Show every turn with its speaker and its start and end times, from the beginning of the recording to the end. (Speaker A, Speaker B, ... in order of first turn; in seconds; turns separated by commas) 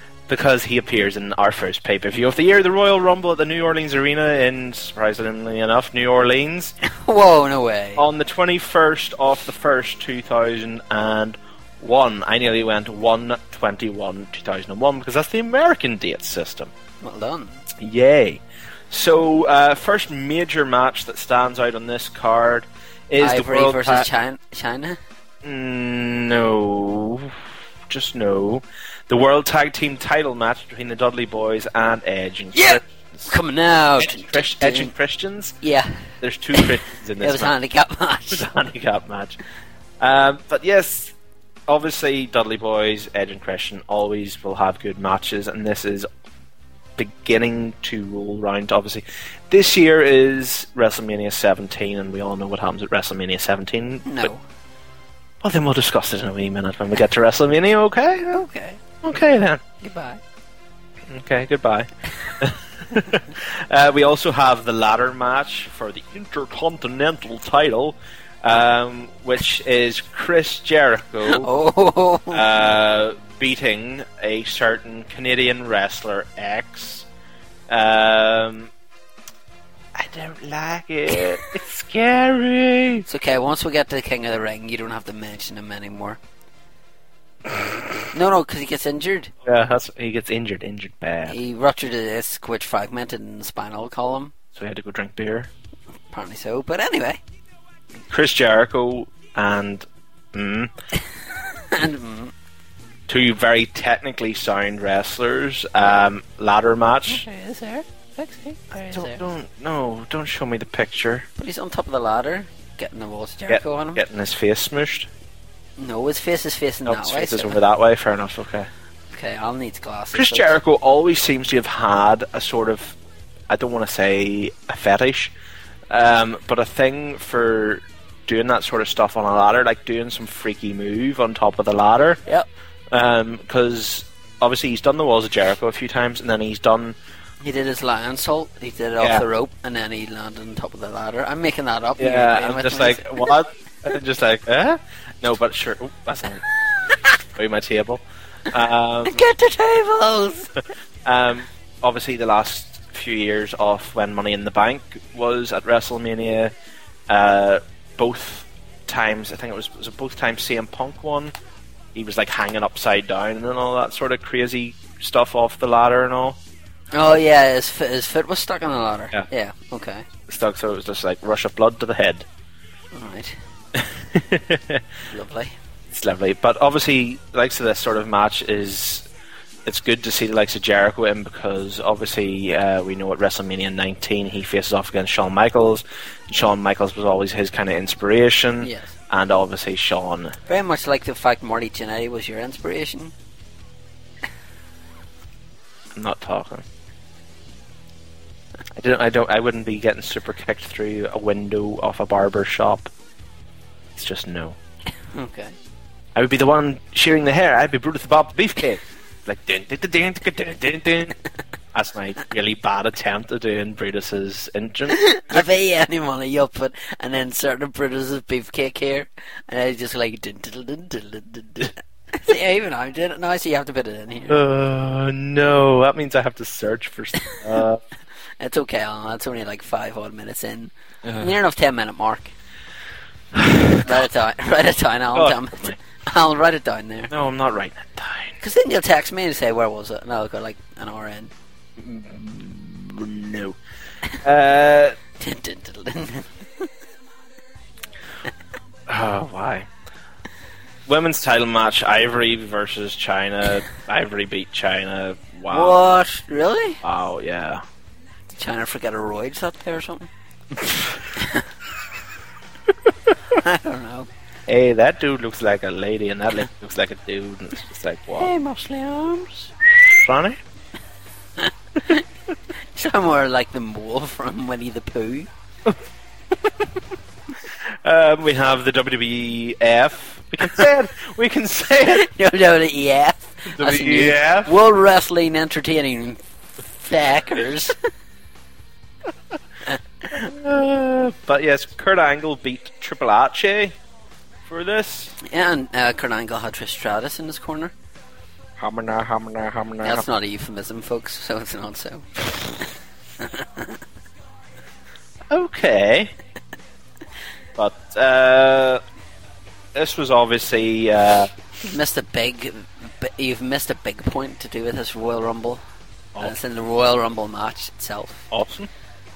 Speaker A: 0.3-6.8, Speaker B: 6.8-8.1, Speaker A: 8.0-16.7, Speaker B: 17.0-17.7, Speaker A: 17.8-24.1, Speaker B: 23.2-25.0, Speaker A: 25.4-27.4, Speaker A: 27.9-33.3, Speaker B: 32.5-34.9, Speaker A: 34.0-35.6, Speaker B: 35.6-36.7, Speaker A: 36.2-37.5, Speaker B: 37.2-38.5, Speaker A: 38.3-39.4, Speaker A: 40.0-41.1, Speaker A: 41.7-46.1, Speaker A: 47.0-54.3, Speaker B: 54.1-54.4, Speaker A: 55.4-58.4, Speaker B: 58.3-58.8, Speaker A: 59.0-59.6, Speaker B: 59.8-60.2, Speaker A: 61.1-71.5, Speaker B: 71.3-72.4, Speaker A: 72.3-77.1, Speaker A: 77.7-78.7, Speaker A: 80.0-83.0, Speaker B: 83.1-86.2, Speaker B: 88.1-89.3, Speaker A: 89.5-91.4, Speaker B: 91.3-94.3, Speaker A: 94.5-95.5, Speaker B: 96.1-97.2, Speaker A: 98.1-100.7, Speaker B: 101.7-102.3, Speaker A: 103.1-107.2, Speaker B: 107.1-109.2, Speaker A: 108.9-111.3, Speaker B: 111.4-114.0, Speaker A: 113.5-115.1, Speaker B: 115.8-117.6, Speaker A: 116.9-118.7, Speaker B: 119.1-120.5, Speaker A: 120.1-123.0, Speaker A: 123.5-125.3, Speaker A: 125.9-132.2, Speaker A: 132.9-137.0, Speaker B: 137.4-143.3, Speaker A: 142.0-146.4, Speaker A: 147.4-149.2, Speaker B: 149.1-150.5, Speaker A: 151.1-156.5, Speaker A: 157.1-161.3, Speaker A: 161.9-166.4, Speaker B: 166.9-170.1, Speaker A: 170.3-172.3, Speaker B: 172.9-173.4, Speaker A: 173.8-174.8, Speaker B: 175.1-175.5, Speaker A: 175.9-179.1, Speaker A: 179.7-190.3, Speaker B: 188.6-188.9, Speaker B: 190.5-193.1, Speaker A: 195.9-196.7, Speaker A: 198.8-202.9, Speaker A: 204.0-204.6, Speaker B: 205.1-205.6, Speaker A: 206.2-211.2, Speaker A: 211.7-215.5, Speaker B: 214.9-224.4, Speaker A: 224.3-227.8, Speaker B: 228.4-232.3, Speaker A: 231.1-231.3, Speaker A: 233.4-233.8, Speaker B: 233.8-237.1, Speaker A: 235.1-235.8, Speaker A: 237.1-238.3, Speaker B: 238.4-241.3, Speaker A: 241.8-243.6, Speaker A: 244.2-245.0, Speaker B: 245.2-246.7, Speaker A: 248.9-249.7, Speaker A: 250.9-255.9, Speaker B: 255.5-256.8, Speaker A: 256.8-257.6, Speaker B: 258.3-260.1, Speaker B: 261.2-261.4, Speaker B: 263.3-264.1, Speaker A: 264.5-268.3, Speaker B: 268.2-269.5, Speaker A: 269.8-270.4, Speaker B: 271.4-272.0, Speaker B: 272.8-275.3, Speaker A: 277.8-282.1, Speaker B: 282.0-286.2, Speaker A: 283.5-284.5, Speaker B: 286.8-287.8, Speaker B: 289.7-290.3, Speaker A: 290.2-293.8, Speaker A: 294.4-295.1, Speaker B: 295.2-297.7, Speaker A: 298.6-300.1, Speaker B: 299.8-302.1, Speaker B: 303.2-303.8, Speaker A: 305.3-306.1, Speaker A: 307.6-308.8, Speaker A: 309.8-311.3, Speaker B: 311.7-315.6, Speaker B: 316.2-318.3, Speaker A: 318.3-318.7